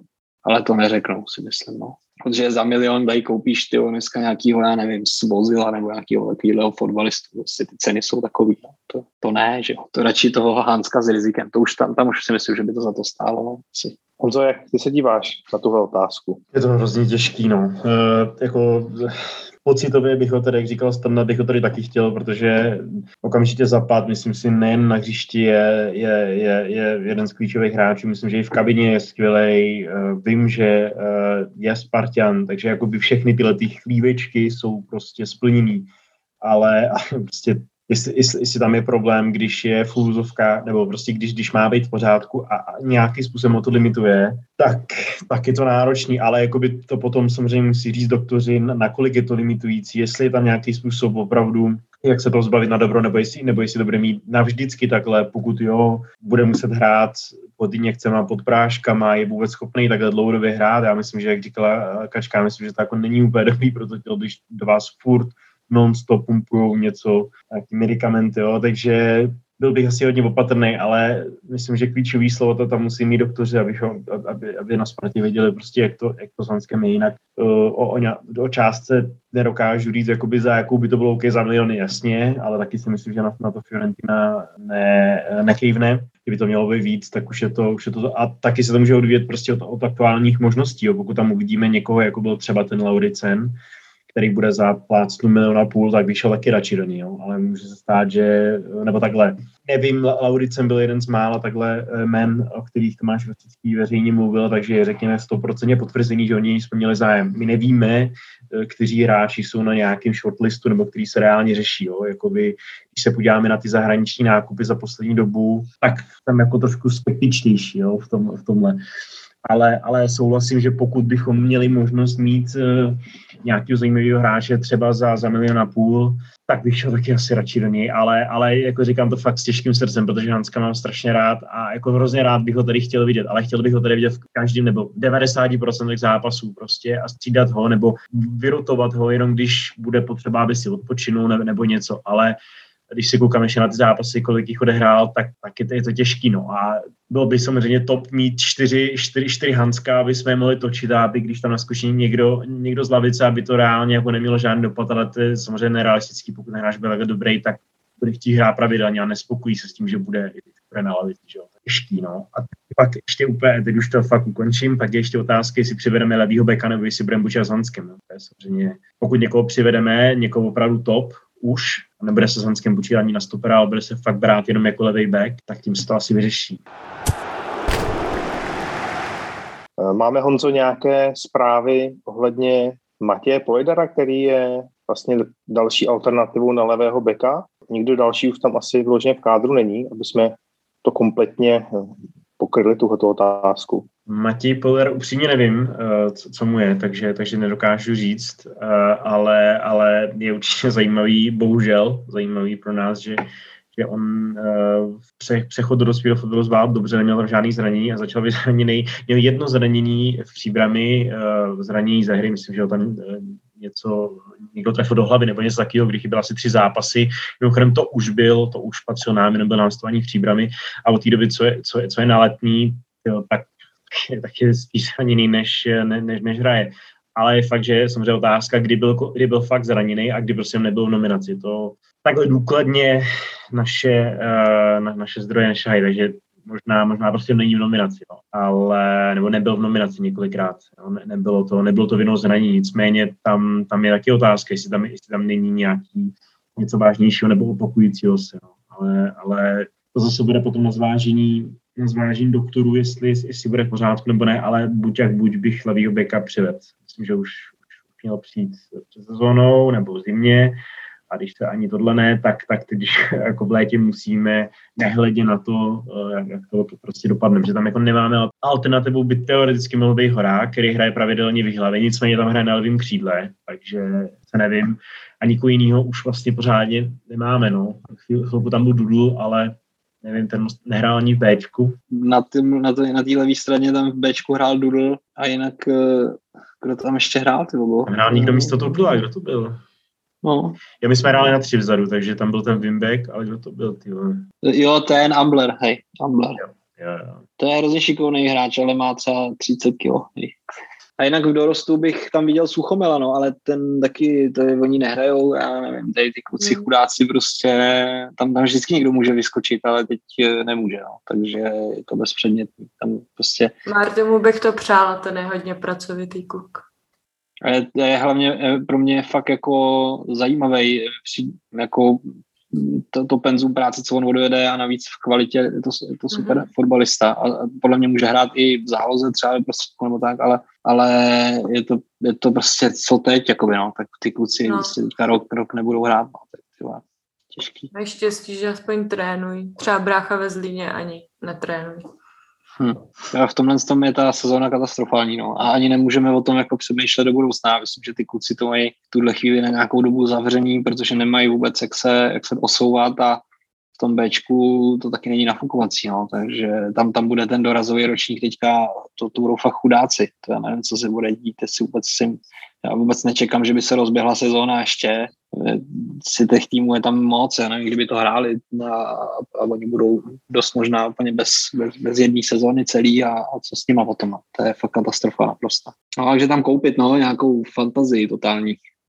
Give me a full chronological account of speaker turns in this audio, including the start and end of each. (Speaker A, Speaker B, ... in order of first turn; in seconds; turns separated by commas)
Speaker A: 0.5-14.0, Speaker B: 14.2-16.4, Speaker C: 16.5-35.9, Speaker C: 36.4-93.6, Speaker C: 94.1-118.8, Speaker C: 119.5-142.4, Speaker C: 142.9-176.6, Speaker B: 179.8-193.9, Speaker C: 194.1-260.6, Speaker C: 261.1-281.8, Speaker A: 281.9-289.0, Speaker C: 287.9-289.6, Speaker A: 290.2-290.6, Speaker C: 290.8-294.3, Speaker A: 294.4-296.4, Speaker C: 296.4-297.2, Speaker A: 297.4-300.4, Speaker A: 301.0-313.5, Speaker D: 306.4-306.7, Speaker D: 313.7-316.6, Speaker A: 317.4-336.8, Speaker D: 326.1-326.5, Speaker D: 334.5-334.7, Speaker A: 337.3-337.7, Speaker D: 337.7-341.8, Speaker A: 342.6-353.2, Speaker A: 353.8-378.6